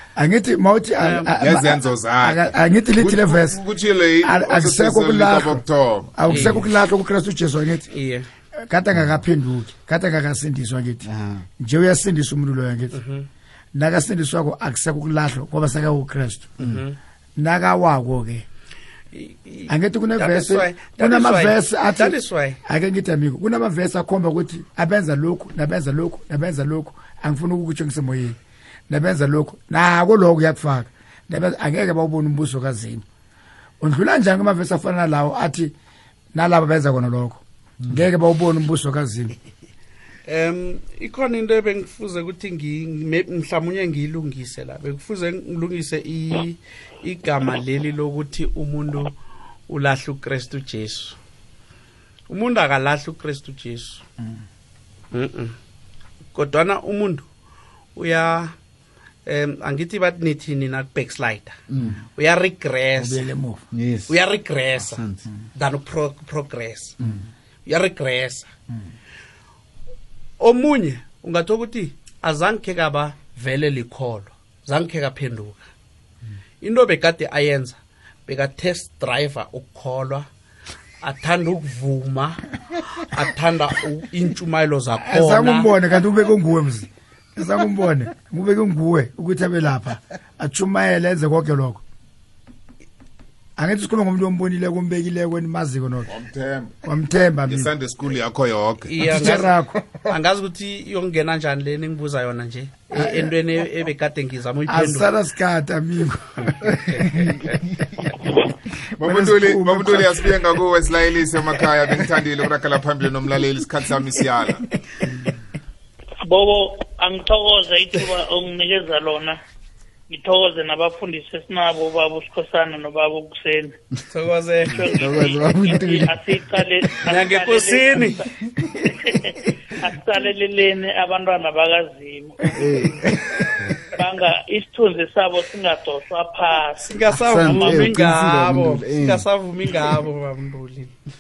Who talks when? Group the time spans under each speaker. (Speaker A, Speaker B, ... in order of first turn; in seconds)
Speaker A: 0.2-3.6, 4.2-5.6, 6.2-7.9, 8.7-11.1, 11.6-13.0, 13.7-16.5, 17.4-18.5, 19.7-28.4, 28.9-33.0, 33.8-35.7, 36.3-39.4, 63.0-63.6, 85.1-91.8, 93.6-96.1, 96.8-97.7, 99.1-99.8, 103.0-103.3, 104.7-107.2, 109.0-110.3
Speaker B: 1.0-1.4, 6.3-6.6, 7.9-8.3, 12.9-13.3, 16.6-17.0, 19.1-22.6, 40.3-49.2, 49.7-51.2, 52.3-54.0, 55.1-55.6, 56.3-57.3, 58.0-58.6, 59.3-61.6, 62.1-63.3, 64.1-65.0, 65.5-67.0, 67.7-68.5, 70.4-75.7, 76.6-80.3, 81.0-85.7, 98.9-99.5, 100.1-105.1, 124.1-125.2, 127.0-128.2, 136.8-140.9
Speaker C: 1.4-6.2, 96.1-96.8, 97.5-99.3, 109.0-114.7
Speaker D: 11.0-11.5, 61.7-62.0, 63.7-64.2, 64.8-65.3, 125.0-126.2, 132.6-133.8, 137.1-139.9
Speaker E: 116.2-119.4, 120.1-123.8, 124.7-132.9, 133.9-137.9